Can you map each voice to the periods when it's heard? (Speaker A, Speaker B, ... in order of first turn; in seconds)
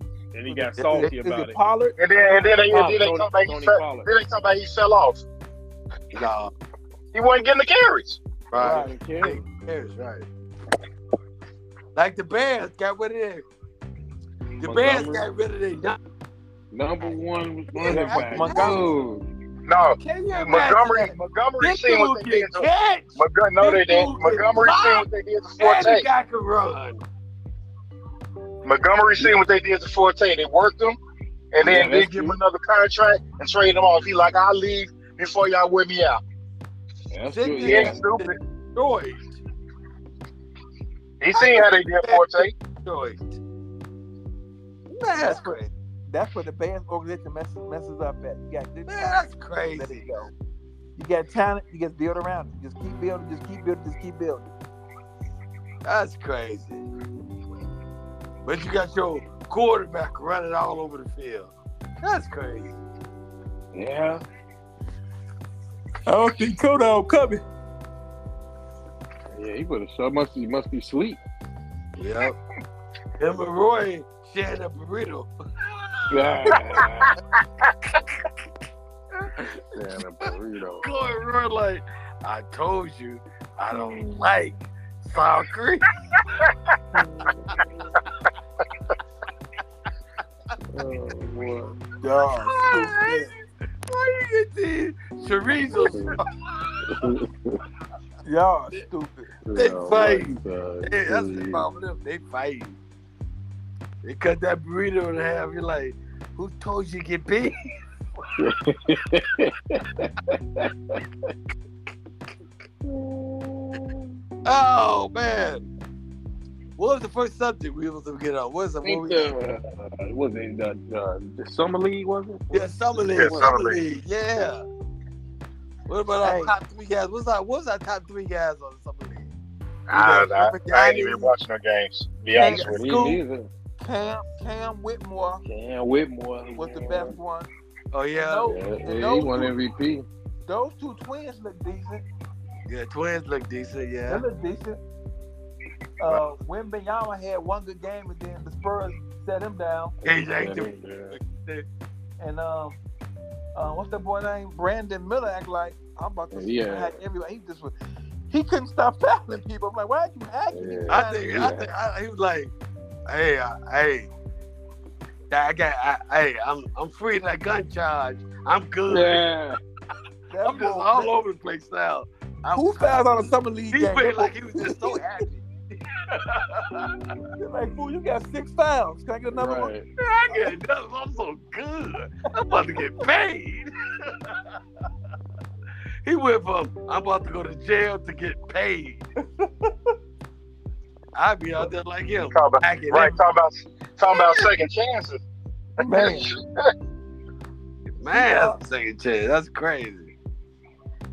Speaker A: 0.3-1.6, 2.7-4.1, 8.6-9.4, 14.6-15.3, 16.7-19.3, 31.6-32.4, 37.1-38.0, 63.7-64.2, 69.3-71.2, 76.1-77.2, 79.7-80.9, 83.7-84.3, 86.9-88.0, 90.7-91.8, 95.9-96.2, 96.9-97.5, 99.5-101.6, 108.4-111.0, 112.8-114.1, 118.8-123.6, 132.7-133.5, 135.4-137.2, 138.4-140.1, 150.0-151.2, 156.3-156.9, 160.5-161.7, 168.9-169.6, 179.3-179.9
Speaker B: 0.5-2.0, 8.6-8.9, 17.9-18.9, 45.2-50.3, 51.0-54.5, 66.1-67.4, 92.0-93.3, 98.2-99.3, 126.2-126.5, 132.3-133.2, 133.8-135.4, 136.6-137.5, 138.2-139.5, 140.5-142.0, 144.1-144.8, 146.0-149.9, 152.2-152.8, 153.6-157.7, 158.3-161.4, 170.3-171.1, 172.5-175.0, 177.4-179.7, 189.2-189.7, 195.8-196.3, 198.1-198.6
Speaker C: 2.0-5.2, 7.1-8.2, 19.7-26.1, 28.6-31.0, 31.5-36.2, 37.6-38.4, 41.2-42.5, 123.2-123.8, 129.9-132.9, 192.2-195.2, 195.8-196.4
Speaker D: 6.1-6.5, 8.5-10.3, 11.9-13.5, 14.6-16.0, 17.7-18.9, 20.0-25.1, 25.6-27.0, 37.3-39.4, 41.3-43.4, 44.9-45.7, 48.9-50.1, 55.9-56.8, 58.4-62.8, 72.0-72.4, 73.2-75.3, 80.2-85.9, 92.3-93.3, 93.9-96.2, 99.5-102.8, 104.0-107.6, 114.5-115.7, 116.8-119.3, 122.5-124.7, 125.9-129.3, 129.9-131.3, 132.4-133.2, 137.9-138.6, 142.7-144.2, 150.0-151.7, 160.9-162.5, 163.1-164.1, 165.3-169.2, 170.4-173.1, 173.7-176.9, 180.0-184.4, 186.0-189.0, 191.2-193.2, 198.0-200.1